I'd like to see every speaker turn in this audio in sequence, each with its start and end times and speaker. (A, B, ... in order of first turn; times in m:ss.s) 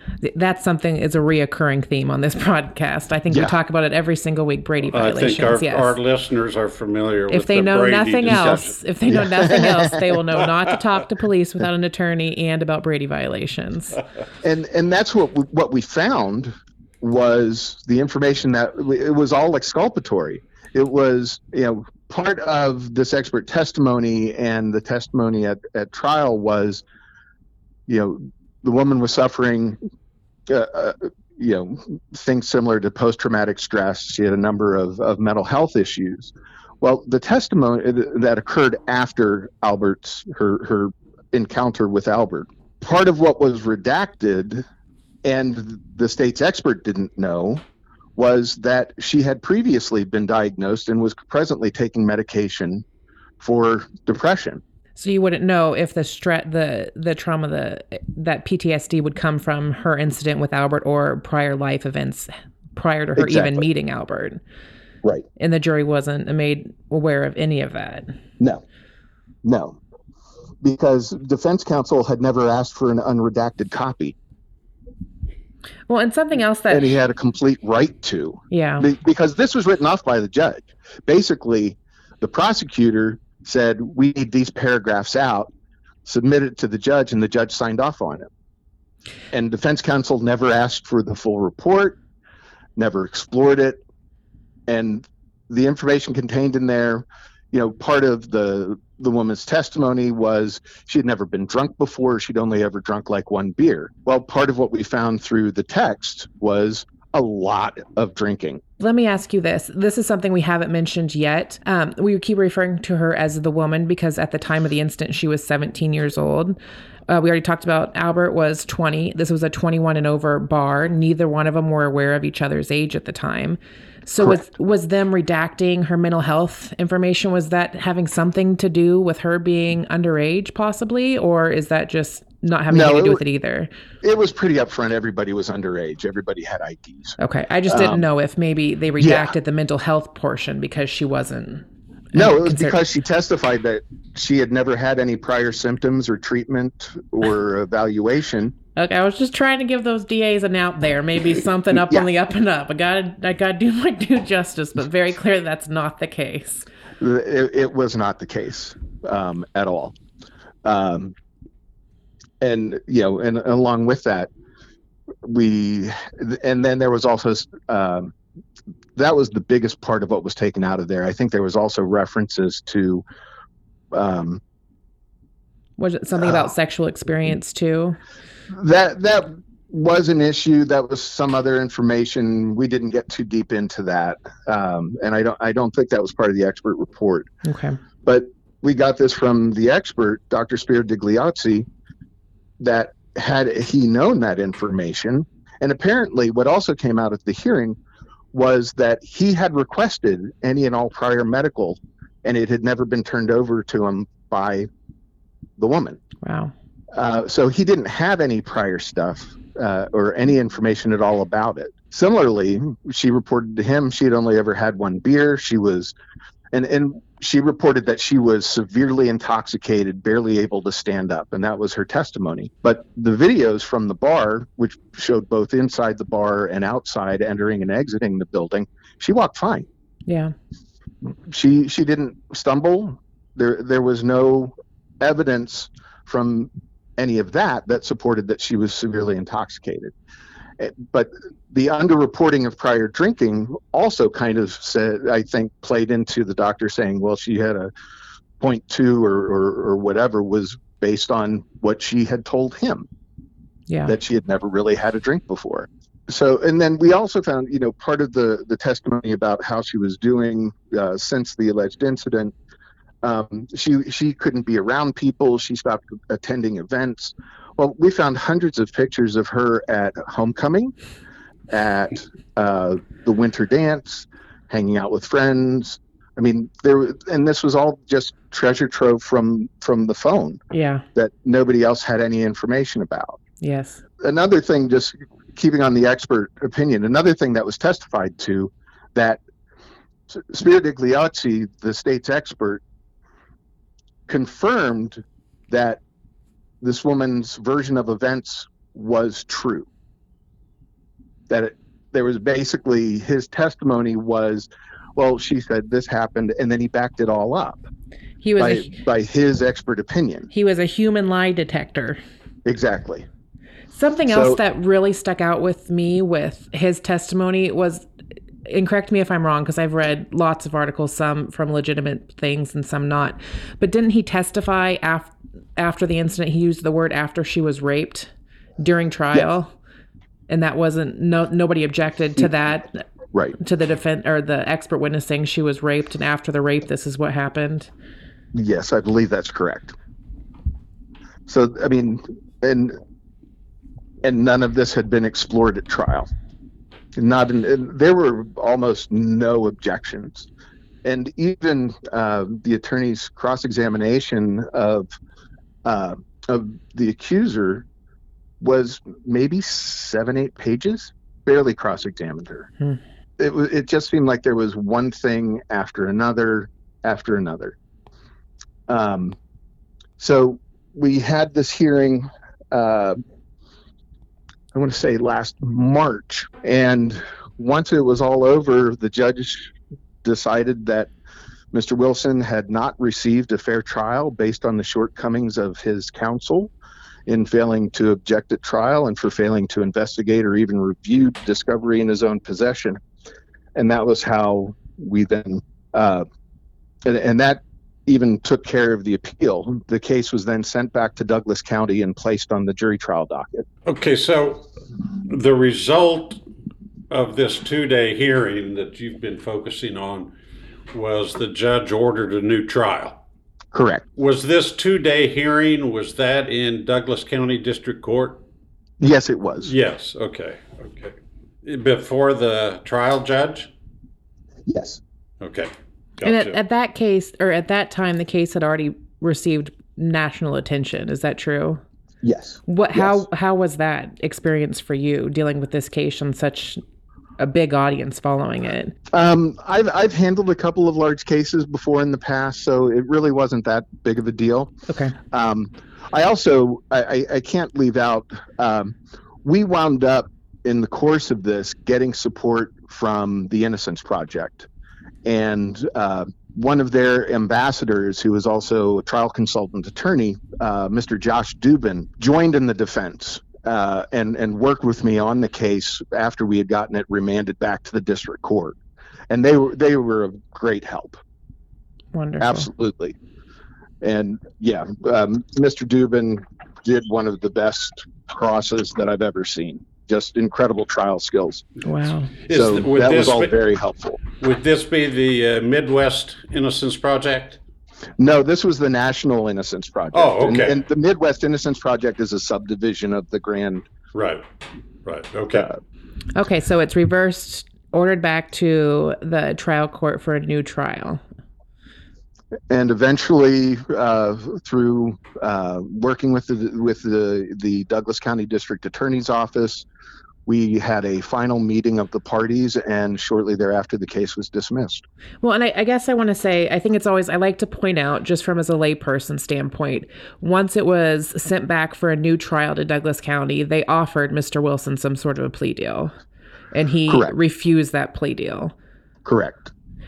0:00.2-0:06.0 A
0:03.3-0:03.6 B
0:04.9-0:08.7 C
0:07.3-0:14.0 A
0:08.3-0:10.0 B
0:14.4-0:26.8 B
0:27.9-0:29.8 B
0:30.5-0:44.7 B
0:45.2-0:47.6 B
0:48.2-0:52.8 B
0:53.4-0:54.6 B
0:55.0-1:04.4 A
1:03.2-1:03.6 B
1:05.4-1:08.1 A
1:09.4-1:09.8 B
1:10.6-1:14.2 B
1:15.9-1:17.0 A
1:16.7-1:25.5 B
1:18.5-1:18.9 A
1:26.1-1:28.3 B
1:29.3-1:32.0 B
1:32.8-1:33.8 B
1:34.7-1:48.6 B
1:48.8-1:56.6 A
1:57.1-2:13.7 A
2:12.7-2:13.2 B
2:14.0-2:18.1 B
2:17.2-2:22.8 A
2:19.0-2:19.3 B
2:22.1-2:28.6 B
2:28.8-2:36.6 A
2:37.0-2:40.0 B
2:40.6-2:41.1 B
2:42.4-2:44.3 B
2:45.2-2:48.1 B
2:49.0-2:53.0 B
2:53.9-2:54.4 B
2:55.8-2:58.0 A
2:58.5-3:07.3 B
3:07.4-3:07.8 A
3:08.0-3:11.7 B
3:12.6-3:17.8 B
3:18.3-3:24.7 B
3:25.6-3:26.0 B
3:26.2-3:26.5 A
3:26.9-3:35.9 B
3:36.5-3:49.7 B
3:50.1-3:50.3 A
3:51.3-3:59.9 B
4:00.6-4:07.7 B
4:08.4-4:12.9 B
4:13.7-4:13.9 A
4:13.9-4:22.3 B
4:23.0-4:30.7 B
4:31.5-4:40.4 B
4:40.5-4:40.8 A
4:41.0-4:43.2 B
4:43.4-4:43.8 A
4:44.0-4:49.2 B
4:50.1-4:52.6 B
4:54.1-4:55.8 B
4:56.6-4:59.7 B
5:01.3-5:07.7 B
5:08.2-5:08.7 A
5:08.4-5:10.3 B
5:10.3-5:12.0 A
5:12.5-5:13.1 B
5:13.7-5:17.8 A
5:14.0-5:14.4 B
5:18.5-5:29.5 A
5:30.3-5:32.8 A
5:33.4-5:37.7 A
5:38.3-5:39.8 B
5:41.3-5:42.8 B
5:44.0-5:46.1 B
5:47.0-5:50.3 B
5:50.8-5:54.9 B
5:55.6-5:57.6 B
5:58.4-6:02.5 B
6:03.2-6:07.6 B
6:08.7-6:09.2 B
6:10.0-6:13.0 B
6:14.5-6:19.5 B
6:20.0-6:20.9 B
6:21.5-6:26.5 B
6:27.1-6:32.8 B
6:33.6-6:36.1 B
6:36.9-6:43.5 B
6:43.7-6:44.5 C
6:45.1-6:46.2 C
6:46.9-6:50.1 C
6:50.7-6:53.0 C
6:53.5-6:53.8 B
6:54.0-6:58.2 C
6:58.8-6:59.5 B
6:59.4-7:03.5 C
7:04.5-7:04.8 B
7:05.2-7:06.4 C
7:06.0-7:11.6 A
7:12.0-7:13.0 B
7:12.5-7:16.6 A
7:17.2-7:18.8 A
7:18.9-7:24.5 B
7:24.7-7:25.0 A
7:25.1-7:34.5 B
7:35.0-7:48.6 B
7:49.1-7:51.0 B
7:51.9-7:52.5 A
7:52.2-7:53.0 B
7:53.8-8:01.5 B
8:01.6-8:02.1 A
8:02.2-8:03.4 C
8:02.3-8:04.0 B
8:04.2-8:07.4 C
8:08.0-8:13.7 B
8:09.9-8:10.6 C
8:13.9-8:14.3 C
8:14.8-8:15.5 C
8:16.2-8:21.0 A
8:22.5-8:29.7 B
8:30.3-8:34.8 B
8:35.2-8:45.9 A
8:46.5-8:48.5 A
8:46.9-8:47.1 B
8:49.0-8:49.5 B